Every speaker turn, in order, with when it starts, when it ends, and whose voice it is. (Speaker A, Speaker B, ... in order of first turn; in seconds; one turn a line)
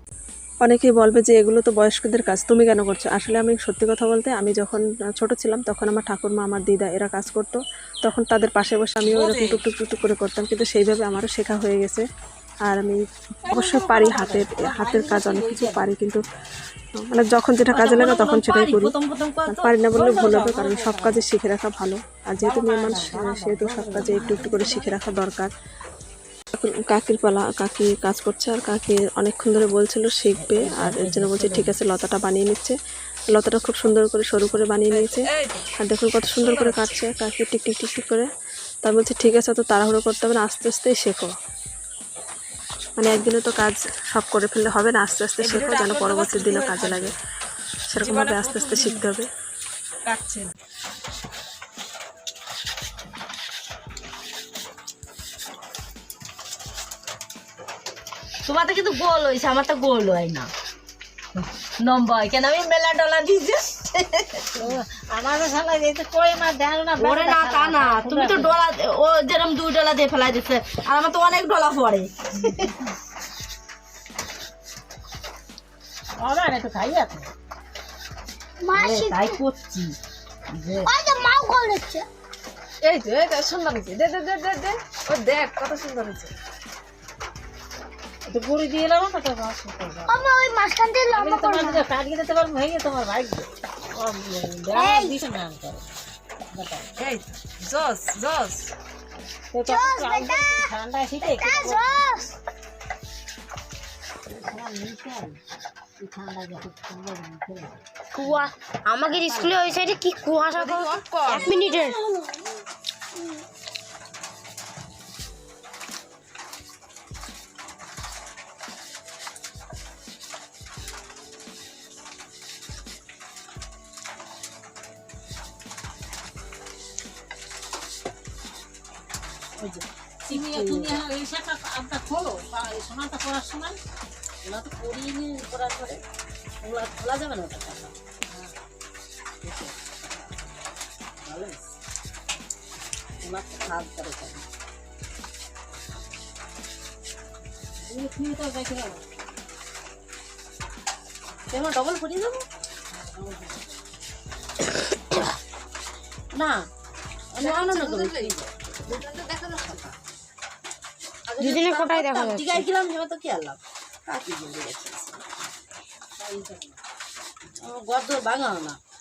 Speaker A: 0.6-12.0
Speaker B: 9.0-9.6
Speaker A: 12.7-16.2
Speaker C: 13.4-15.8
Speaker A: 17.0-18.9
Speaker D: 17.7-19.7
Speaker A: 19.5-25.5
Speaker C: 19.9-21.2
Speaker C: 22.4-24.9
Speaker A: 26.5-32.8
Speaker D: 30.4-31.8
Speaker A: 33.3-38.3
Speaker B: 34.9-35.7
Speaker B: 36.4-36.9
Speaker A: 38.8-41.3
Speaker A: 43.0-47.1
Speaker B: 45.4-47.1
Speaker A: 47.9-49.3
Speaker B: 48.0-49.1
Speaker B: 50.0-50.5
Speaker D: 58.4-60.5
Speaker D: 61.7-64.7
Speaker C: 64.5-68.6
Speaker D: 67.0-72.7
Speaker C: 76.2-77.3
Speaker E: 78.6-79.4
Speaker D: 78.7-80.0
Speaker D: 80.5-80.9
Speaker E: 80.8-82.1
Speaker B: 82.8-86.3
Speaker C: 88.3-90.1
Speaker E: 90.1-91.8
Speaker C: 91.1-95.8
Speaker E: 94.7-95.1
Speaker C: 96.5-96.9
Speaker B: 97.0-98.7
Speaker C: 99.5-102.0
Speaker E: 99.6-100.7
Speaker E: 101.2-102.3
Speaker C: 104.3-105.4
Speaker C: 106.0-108.4
Speaker E: 108.1-112.0
Speaker C: 109.0-110.0
Speaker C: 111.3-111.8
Speaker D: 129.6-131.0
Speaker C: 130.3-133.8
Speaker D: 134.4-136.0
Speaker D: 136.6-137.9
Speaker C: 138.3-138.5
Speaker D: 139.4-140.2
Speaker D: 141.2-141.6
Speaker D: 143.2-144.5
Speaker C: 147.8-149.0
Speaker D: 151.5-152.4
Speaker C: 152.9-153.6
Speaker D: 156.3-156.7
Speaker D: 157.3-159.0
Speaker B: 157.4-158.3
Speaker B: 158.8-159.9
Speaker D: 161.3-163.6
Speaker E: 161.4-162.6
Speaker B: 164.1-165.0
Speaker D: 164.4-164.9
Speaker C: 166.2-166.8
Speaker D: 167.6-168.8